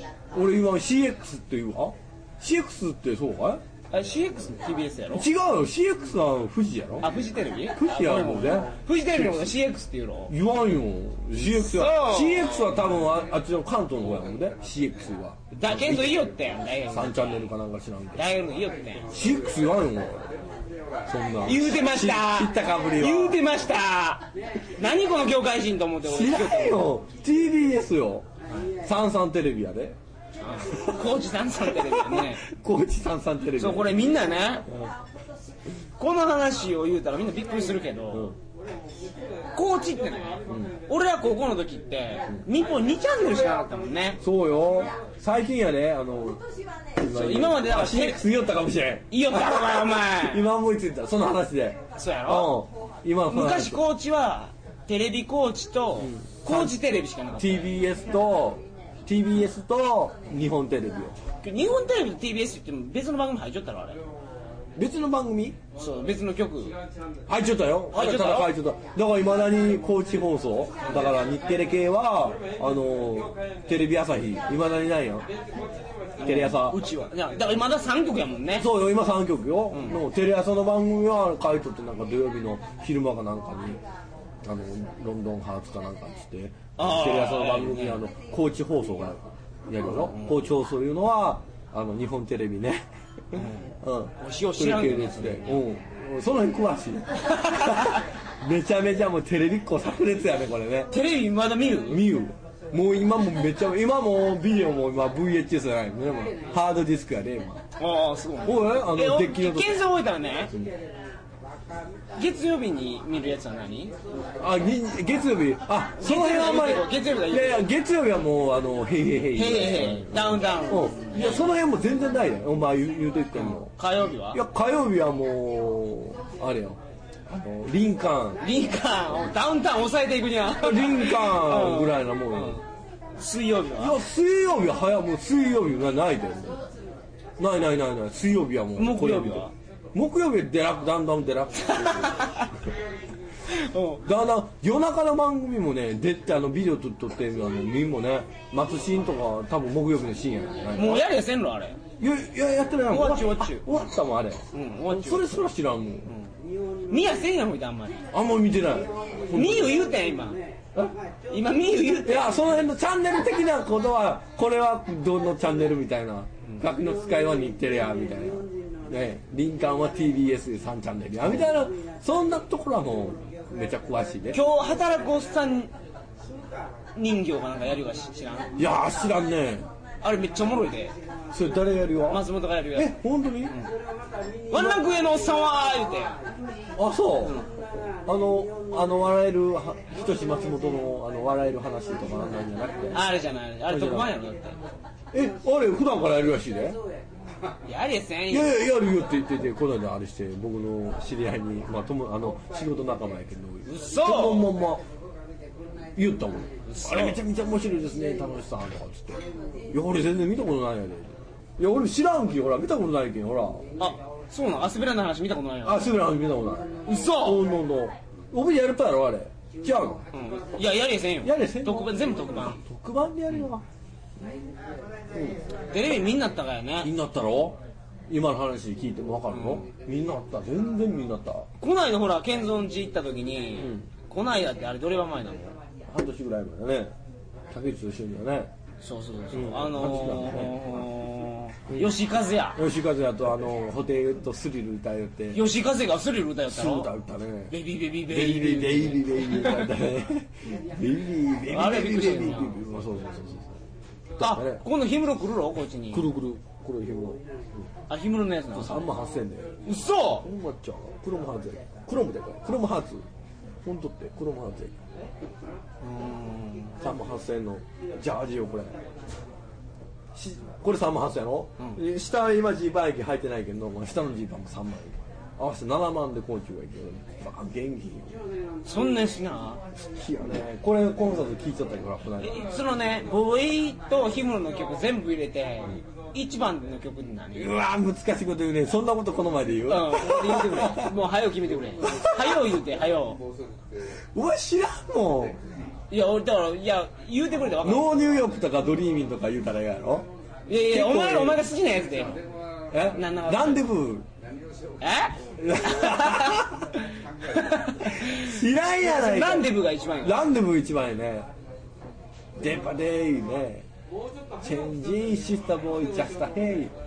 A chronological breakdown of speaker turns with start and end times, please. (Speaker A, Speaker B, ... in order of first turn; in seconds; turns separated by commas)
Speaker A: 0.3-3.6, Speaker B: 3.9-5.3, Speaker A: 5.1-7.1, Speaker B: 7.0-10.3, Speaker A: 7.7-9.5, Speaker A: 10.3-16.3, Speaker B: 11.3-12.8, Speaker B: 15.5-17.5, Speaker A: 16.9-18.2, Speaker B: 18.1-19.1, Speaker A: 19.1-20.3, Speaker A: 21.1-23.4, Speaker B: 21.4-26.9, Speaker A: 26.0-28.3, Speaker A: 28.8-30.0, Speaker B: 30.4-32.5, Speaker A: 30.7-31.1, Speaker A: 31.6-34.0, Speaker B: 33.6-34.7, Speaker B: 36.0-38.3, Speaker B: 39.5-44.2, Speaker A: 40.5-40.7, Speaker A: 44.2-46.4, Speaker A: 47.0-53.8, Speaker B: 47.0-48.2, Speaker B: 49.1-50.5, Speaker B: 52.0-52.6, Speaker B: 53.3-57.7, Speaker A: 56.0-56.8, Speaker A: 57.4-61.1, Speaker B: 61.4-64.0, Speaker A: 64.8-65.6, Speaker B: 65.8-66.8, Speaker A: 67.3-75.3, Speaker B: 67.9-68.5, Speaker B: 76.2-78.7, Speaker A: 76.2-76.8, Speaker A: 78.5-83.8, Speaker B: 79.7-80.0, Speaker A: 84.5-92.8, Speaker B: 86.8-88.1, Speaker B: 89.8-90.4, Speaker A: 93.3-100.9, Speaker B: 93.3-95.6, Speaker B: 97.3-98.0, Speaker B: 100.9-102.1, Speaker A: 101.8-107.6, Speaker B: 107.8-110.5, Speaker A: 108.4-109.8, Speaker B: 112.2-114.0, Speaker A: 114.4-123.7, Speaker B: 116.0-117.7, Speaker B: 119.3-121.5, Speaker B: 123.3-124.4, Speaker A: 124.3-128.4, Speaker B: 128.4-132.6, Speaker A: 130.5-132.6, Speaker B: 133.2-134.0, Speaker A: 133.8-136.6, Speaker A: 137.4-142.2, Speaker B: 138.8-139.5, Speaker B: 141.6-142.5, Speaker B: 143.5-144.0, Speaker A: 144.0-151.1, Speaker B: 150.8-151.8, Speaker A: 152.0-156.1, Speaker B: 152.9-153.7, Speaker B: 154.5-155.3, Speaker B: 156.1-156.3, Speaker B: 156.9-158.0, Speaker A: 158.1-159.9, Speaker B: 159.3-160.4, Speaker B: 161.3-162.3, Speaker A: 161.7-174.4, Speaker B: 174.3-175.7, Speaker B: 177.0-178.5, Speaker A: 178.6-179.7, Speaker B: 180.0-180.9, Speaker A: 181.3-183.6, Speaker B: 182.1-182.9, Speaker B: 183.5-183.7, Speaker B: 184.5-186.2, Speaker A: 184.5-184.8, Speaker A: 186.8-187.4, Speaker B: 187.2-187.5, Speaker A: 188.1-193.0, Speaker B: 192.9-194.6, Speaker A: 193.7-194.1, Speaker A: 195.1-196.8, Speaker B: 197.7-198.6, Speaker A: 198.3-204.8, Speaker B: 203.7-204.6, Speaker A: 206.0-213.6, Speaker B: 206.7-207.2, Speaker B: 213.8-215.8, Speaker A: 215.6-220.0, Speaker B: 216.9-217.4, Speaker B: 220.1-222.6, Speaker A: 221.2-223.6, Speaker A: 225.1-225.4, Speaker B: 225.7-226.9, Speaker A: 226.8-231.5, Speaker B: 229.3-229.7, Speaker B: 231.6-235.6, Speaker A: 233.6-233.9, Speaker A: 235.9-236.9, Speaker A: 237.5-238.5, Speaker B: 238.8-242.6, Speaker A: 239.3-240.6, Speaker A: 241.7-241.9, Speaker A: 242.6-245.5, Speaker B: 245.3-246.9, Speaker A: 246.5-247.6, Speaker B: 247.5-249.8, Speaker A: 248.1-253.6, Speaker B: 251.5-252.6, Speaker A: 254.2-254.6, Speaker B: 254.2-256.1, Speaker A: 255.9-257.2, Speaker B: 257.9-258.8, Speaker A: 258.5-259.6, Speaker B: 259.6-260.3, Speaker A: 260.2-263.1, Speaker A: 263.6-264.7, Speaker B: 265.8-266.8, Speaker A: 266.8-268.8, Speaker A: 270.1-278.2, Speaker B: 278.6-279.6, Speaker A: 279.8-282.4, Speaker B: 282.2-287.5, Speaker A: 287.3-290.9, Speaker B: 289.7-293.2, Speaker A: 291.8-292.5, Speaker A: 294.1-295.4, Speaker B: 295.9-297.9, Speaker A: 297.6-300.1, Speaker B: 300.5-302.2, Speaker A: 300.7-301.4, Speaker A: 302.7-304.1, Speaker B: 302.9-303.6, Speaker B: 304.8-306.6, Speaker A: 305.4-306.7, Speaker B: 307.3-310.2, Speaker A: 307.9-311.3, Speaker A: 312.4-313.7, Speaker A: 314.4-316.7